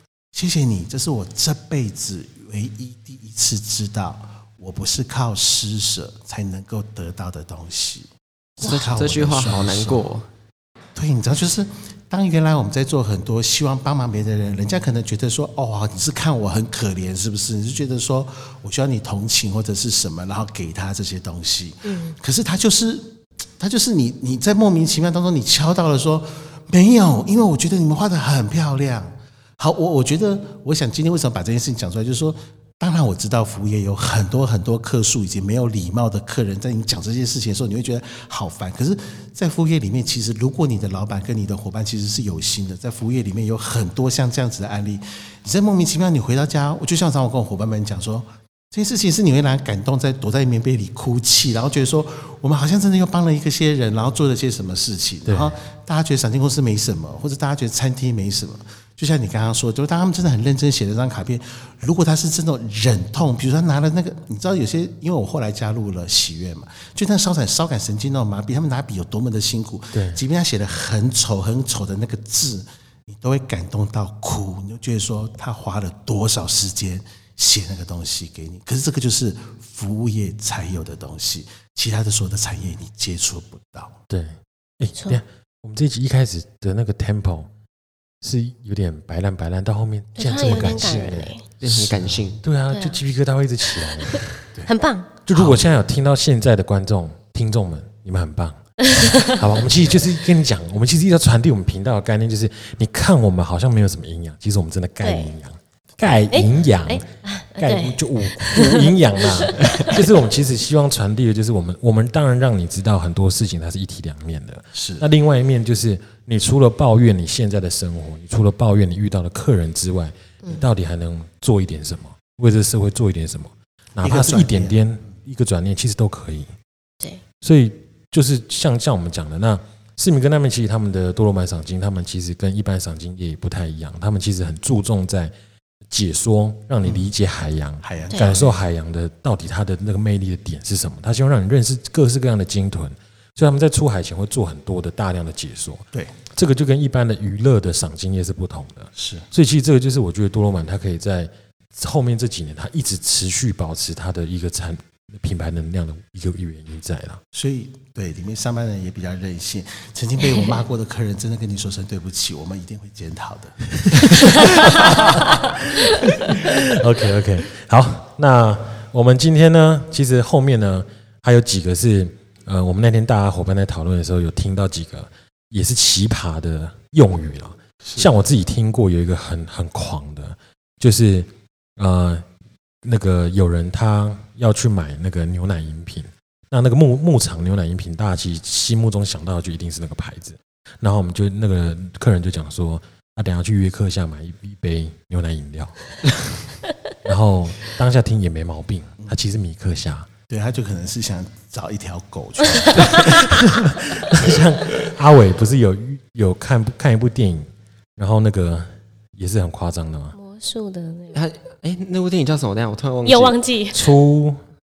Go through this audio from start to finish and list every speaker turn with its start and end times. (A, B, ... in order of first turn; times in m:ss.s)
0:00.3-0:10.0 A
0:08.6-0:10.2 B
0:10.9-1:24.0 A
0:21.8-0:22.2 C
0:55.3-0:55.5 D
1:09.9-1:10.2 D
1:24.1-1:27.5 D
1:28.2-1:31.3 D
1:30.2-1:31.4 C
1:31.6-1:32.4 B
1:31.6-1:32.2 A
1:32.4-1:34.3 D
1:32.7-1:33.0 C
1:34.0-1:35.1 C
1:35.3-1:38.6 D
1:35.3-1:35.7 A
1:38.9-1:39.4 C
1:39.2-1:47.0 D
1:45.0-1:45.3 C
1:46.3-1:50.0 C
1:47.6-2:06.5 D
1:54.7-1:55.0 A
2:00.4-2:00.7 C
2:04.0-2:04.8 A
2:07.4-2:15.3 D
2:15.9-2:37.2 D
2:17.8-2:18.6 A
2:18.1-2:18.4 C
2:28.9-2:29.3 A
2:37.3-2:45.4 A
2:40.3-2:40.6 C
2:44.2-3:02.2 D
2:57.8-2:58.1 A
3:02.8-3:15.8 D
3:17.0-3:20.1 D
3:20.3-3:23.4 A
3:22.8-3:30.1 D
3:30.1-3:31.2 C
3:31.1-3:33.4 B
3:33.0-3:33.8 C
3:33.7-3:34.4 D